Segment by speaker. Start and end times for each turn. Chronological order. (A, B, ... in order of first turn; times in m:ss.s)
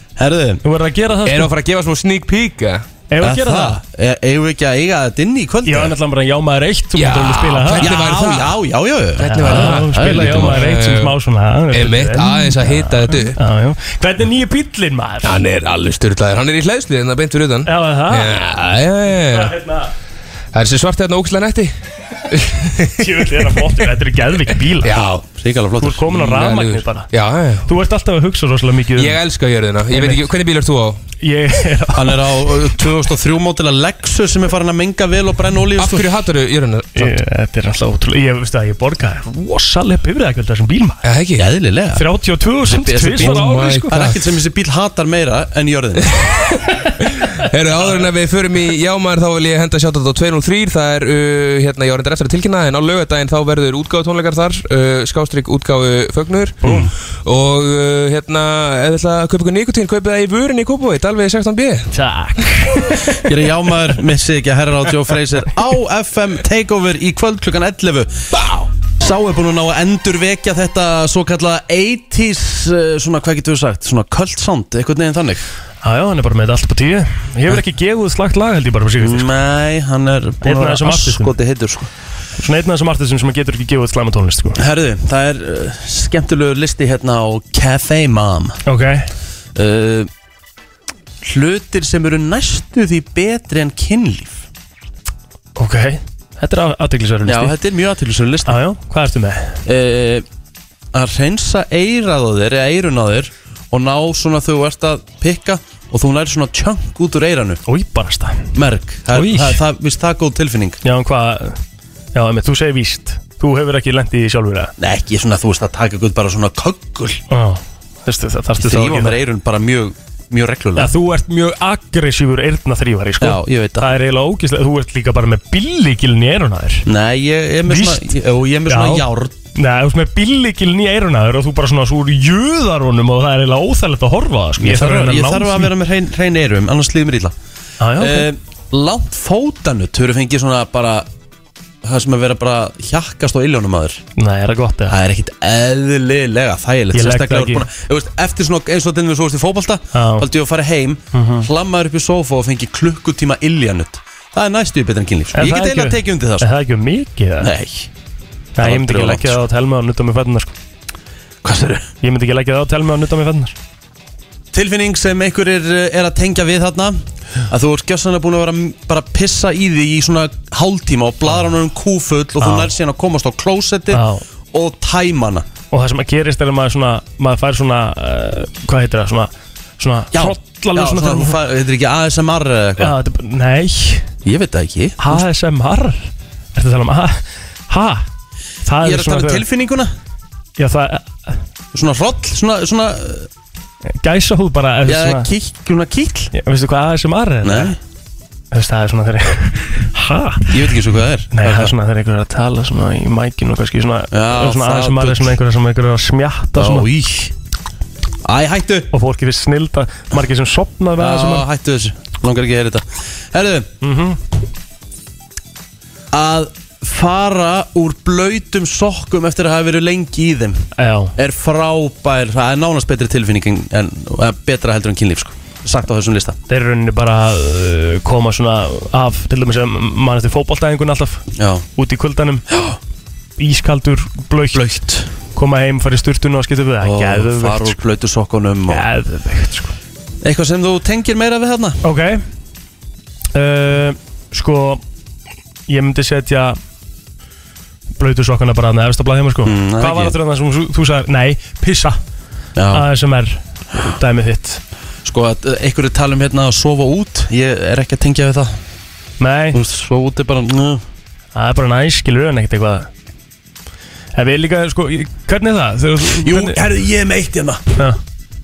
0:00.2-0:00.6 A
0:00.6-0:01.5 B
0:01.2-0:02.8 C
0:03.1-0:03.8 B
0:03.2-0:05.9 A
0:05.6-0:07.9 B
0:06.9-0:08.6 C
0:07.8-0:10.6 A
0:09.2-0:11.2 C
0:09.2-0:15.4 B
0:11.7-0:13.4 C
0:15.2-0:19.6 C
0:17.7-0:18.4 B
0:19.3-0:19.9 B
0:20.5-0:21.7 C
0:22.3-0:23.9 C
0:23.0-0:24.9 B
0:24.5-0:25.3 C
0:25.4-0:26.2 A
0:25.8-0:27.1 B
0:26.2-0:27.7 C
0:27.7-0:29.2 B
0:29.0-0:31.0 C
0:29.9-0:30.2 B
0:31.2-0:32.6 B
0:32.0-0:36.1 A
0:35.8-0:37.2 C
0:37.0-0:41.0 B
0:41.0-0:41.5 C
0:41.4-0:42.0 A
0:42.0-0:43.9 B
0:42.7-0:46.1 A
0:43.2-0:44.2 C
0:46.2-1:01.9 C
0:56.6-0:56.9 B
1:01.9-1:03.3 B
1:03.2-1:08.2 A
1:09.0-1:15.5 A
1:15.8-1:19.3 B
1:19.0-1:21.9 A
1:20.4-1:21.3 B
1:22.4-1:24.6 B
1:24.6-1:28.6 A
1:28.7-1:29.1 B
1:29.6-1:30.1 A
1:31.2-1:34.4 A
1:35.6-1:37.6 B
1:37.3-1:38.6 A
1:38.5-1:39.6 B
1:39.7-1:40.2 A
1:40.9-1:47.6 A
1:47.7-1:48.5 B
1:48.5-1:50.8 A
1:49.1-1:49.6 B
1:50.8-1:51.6 B
1:52.2-1:54.7 B
1:54.8-1:57.2 A
1:57.3-1:59.2 B
1:58.6-2:00.9 A
2:00.8-2:06.9 B
2:03.2-2:03.9 A
2:06.9-2:09.4 A
2:07.7-2:08.0 B
2:08.7-2:15.7 B
2:14.6-2:17.3 A
2:17.8-2:18.3 B
2:18.0-2:21.1 A
2:21.8-2:24.0 A
2:24.2-2:25.0 B
2:24.9-2:36.5 A
2:26.9-2:27.7 B
2:29.9-2:30.3 B
2:31.1-2:31.5 B
2:35.3-2:37.5 B
2:37.4-2:37.9 A
2:38.6-2:40.5 B
2:38.6-2:39.4 A
2:41.4-2:41.8 A
2:42.0-2:43.6 B
2:44.5-2:47.0 A
2:47.5-2:55.5 A
2:52.4-2:52.7 B
2:53.9-2:54.2 B
2:55.7-3:01.4 B
3:00.1-3:03.0 A
3:02.8-3:04.1 B
3:04.2-3:05.2 A
3:05.0-3:08.1 B
3:08.6-3:09.4 B
3:08.8-3:09.9 A
3:10.6-3:11.4 B
3:11.7-3:13.3 A
3:14.0-3:15.3 B
3:14.9-3:16.3 A
3:16.3-3:17.7 B
3:17.4-3:17.8 A
3:18.5-3:20.7 B
3:20.5-3:21.7 A
3:21.3-3:26.9 B
3:24.1-3:25.4 A
3:26.6-3:27.3 A
3:28.2-3:28.9 A
3:28.9-3:31.5 B
3:31.0-3:33.7 A
3:33.8-3:34.2 B
3:36.1-3:46.4 A
3:40.8-3:41.1 B
3:46.5-3:51.2 B
3:51.4-3:51.6 A
3:51.8-3:52.5 B
3:52.5-3:52.8 A
3:53.4-3:54.6 B
3:54.5-3:55.1 A
3:55.4-3:57.8 B
3:56.8-3:58.9 A
3:58.7-3:59.7 B
4:00.2-4:01.8 A
4:01.8-4:02.2 B
4:03.3-4:04.8 B
4:05.7-4:06.6 B
4:08.0-4:12.0 B
4:09.4-4:10.2 A
4:12.6-4:12.9 A
4:12.7-4:14.6 B
4:15.0-4:18.6 A
4:19.2-4:19.6 B
4:19.5-4:20.8 A
4:21.4-4:22.9 B
4:24.2-4:26.6 B
4:26.2-4:27.6 A